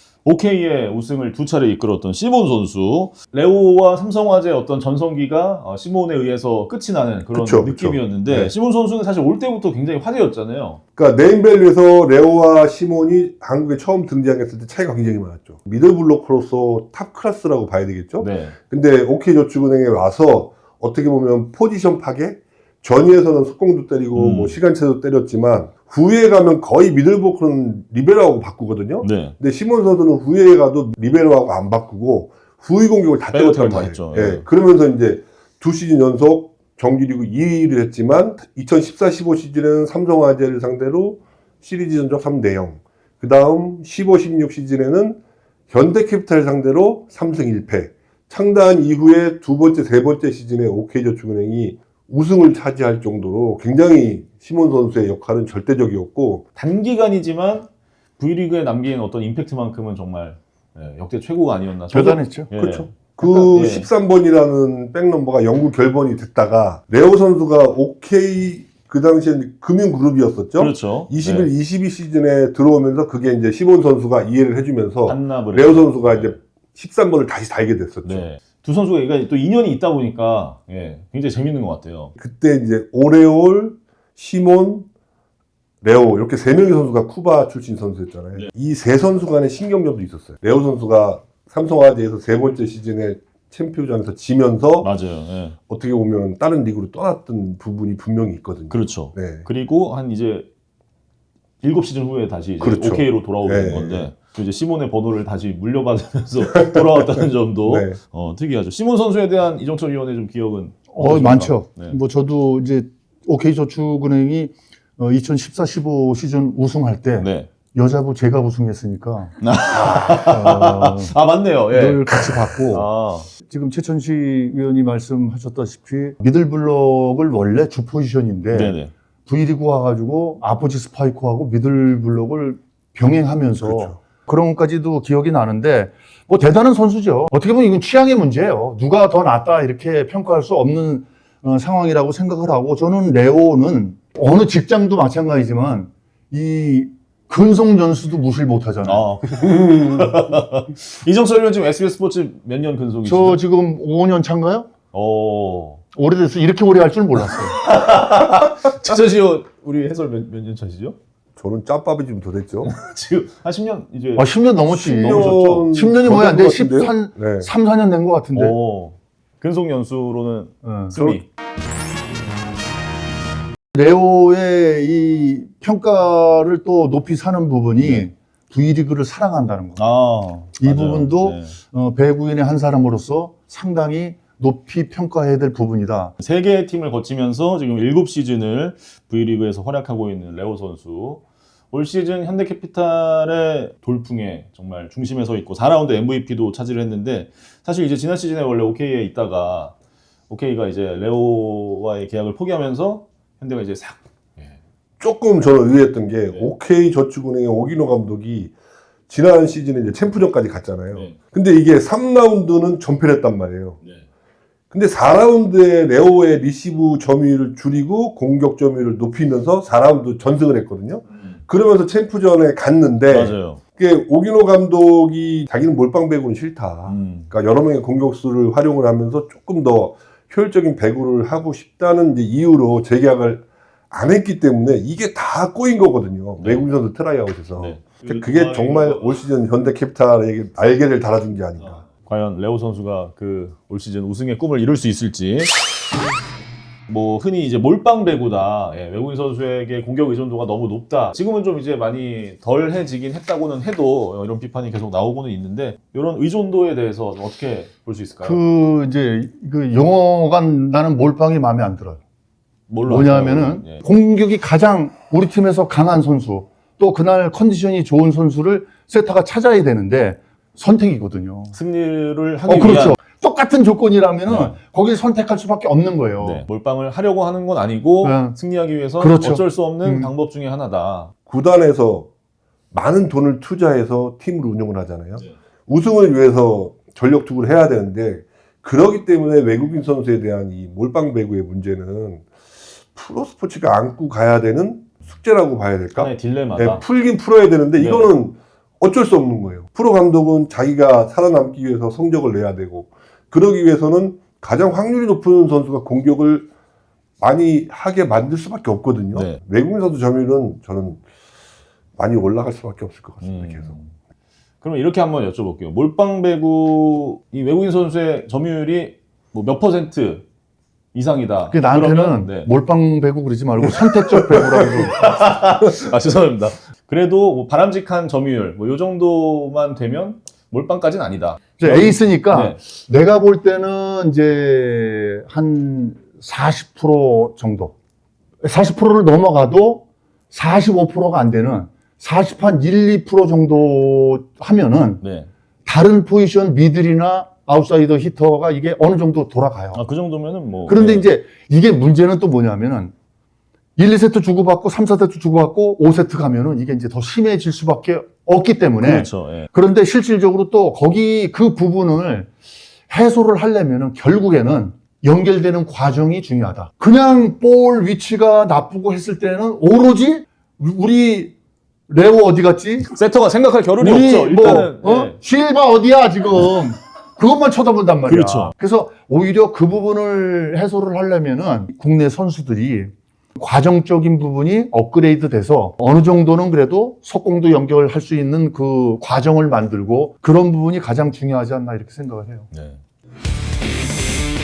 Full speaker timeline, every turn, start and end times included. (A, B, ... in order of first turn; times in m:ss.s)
0:00.2-0:10.8 A
0:07.3-0:08.5 B
0:11.0-0:56.4 B
0:18.2-0:18.5 A
0:24.2-0:24.6 A
0:29.0-0:29.3 A
0:33.3-0:34.4 A
0:56.6-0:57.7 A
0:58.2-1:03.9 A
1:01.9-1:02.5 C
1:02.6-1:18.2 B
1:10.6-1:11.5 A
1:15.0-1:16.4 A
1:18.0-1:22.1 A
1:22.2-1:24.9 B
1:25.8-1:34.9 B
1:34.8-1:35.6 A
1:35.7-1:39.4 B
1:38.7-1:40.5 A
1:41.6-1:52.0 A
1:42.6-1:44.1 B
1:47.6-1:48.0 B
1:50.9-1:59.4 C
1:57.2-1:57.5 A
1:59.4-2:03.3 A
1:59.9-2:01.1 C
2:01.7-2:02.9 C
2:03.4-2:29.0 C
2:08.5-2:08.9 A
2:13.6-2:14.0 B
2:28.8-2:33.4 A
2:33.0-2:34.7 C
2:34.9-2:35.8 A
2:35.9-2:37.6 C
2:37.3-2:41.0 A
2:41.4-2:42.7 B
2:42.6-2:45.7 A
2:44.2-2:48.6 C
2:44.7-2:47.5 B
2:48.3-2:51.2 A
2:50.6-2:51.0 C
2:53.7-2:59.8 C
2:57.8-2:58.1 A
2:59.8-3:01.6 A
3:00.6-3:06.1 C
3:06.2-3:11.2 A
3:11.7-3:19.7 A
3:20.3-3:24.5 A
3:25.0-3:28.5 B
3:29.1-3:33.8 B
3:34.7-4:01.8 B
3:43.1-3:43.6 A
3:46.9-3:47.3 A
3:56.4-3:56.6 A
3:57.6-3:59.2 A
4:01.6-4:05.5 A
4:06.9-4:18.4 A
4:18.2-4:22.0 C
4:22.7-4:23.8 A
4:22.9-4:31.6 C
4:31.5-4:33.0 A
4:32.4-4:36.4 C
4:34.3-4:34.6 A
4:36.2-4:41.1 A
4:38.0-4:38.4 C
4:39.0-4:40.1 C
4:41.3-4:42.1 B
4:42.7-4:52.2 B
4:52.9-5:06.5 B
4:55.9-4:56.8 A
4:57.8-4:58.1 A
5:07.2-5:11.0 B
5:09.1-5:09.4 A
5:12.0-5:13.7 B
5:13.2-5:13.9 A
5:14.6-5:20.2 A
5:20.9-5:22.5 A
5:21.5-5:25.1 C
5:24.1-5:32.6 A
5:31.6-5:37.7 C
5:38.4-5:45.0 C
5:45.0-5:45.3 A
5:45.6-5:49.8 C
5:49.7-5:51.1 A
5:50.6-5:52.9 C
5:53.8-6:02.3 C
5:58.8-5:59.5 A
6:02.9-6:11.3 C
6:11.9-6:12.9 C
6:12.8-6:15.2 A
6:13.8-6:32.5 C
6:18.0-6:18.5 A
6:32.5-6:32.8 A